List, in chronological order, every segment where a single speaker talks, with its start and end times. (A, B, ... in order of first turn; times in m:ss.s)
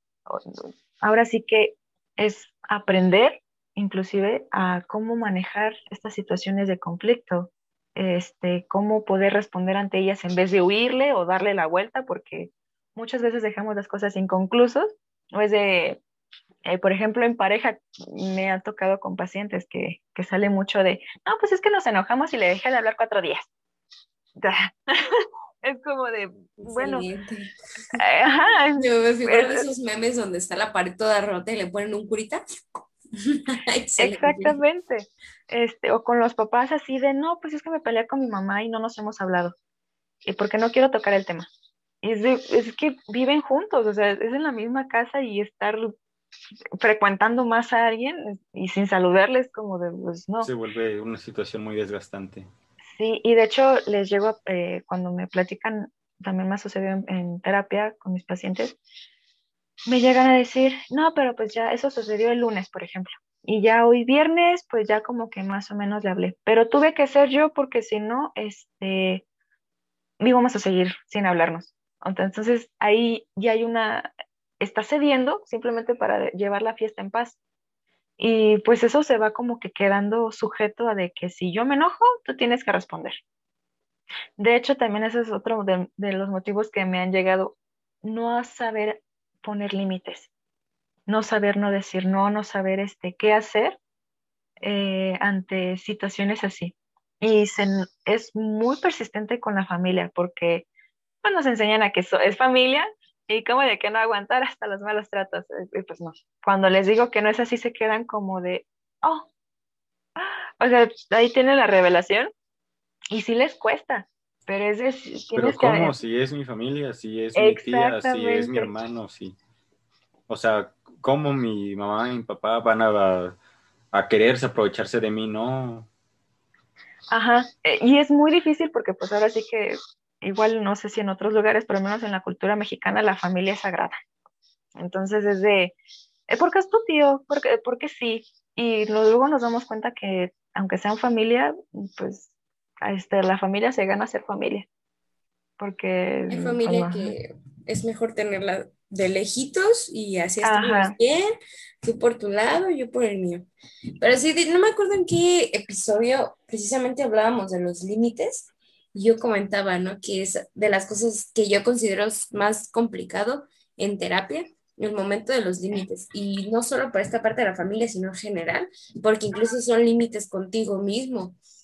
0:00.3-0:16.0 A
0:16.6-0:23.5 A
0:24.4-0:27.1 A
0:26.6-0:28.0 B
0:27.9-0:29.7 A
0:28.8-0:34.6 B
0:34.0-0:39.5 A
0:40.2-0:41.5 A
0:42.0-0:45.9 A
0:46.8-0:50.5 A
0:50.4-0:52.5 C
0:53.0-0:58.8 A
0:59.9-1:09.2 A
1:10.2-1:14.1 A
1:14.6-1:17.4 A
1:18.2-1:23.2 A
1:24.4-1:30.3 A
1:31.1-1:33.8 A
1:34.6-1:40.7 A
1:41.2-1:49.3 A
1:50.2-1:52.3 A
1:53.1-1:56.0 A
1:55.3-1:59.4 C
1:57.4-1:58.7 A
2:00.3-2:03.4 C
2:03.9-2:05.9 C
2:07.1-2:14.0 A
2:14.8-2:15.8 A
2:16.3-2:22.3 A
2:22.8-2:24.7 A
2:25.6-2:27.2 A
2:26.3-2:33.5 B
2:30.4-2:31.0 A
2:34.0-2:51.4 B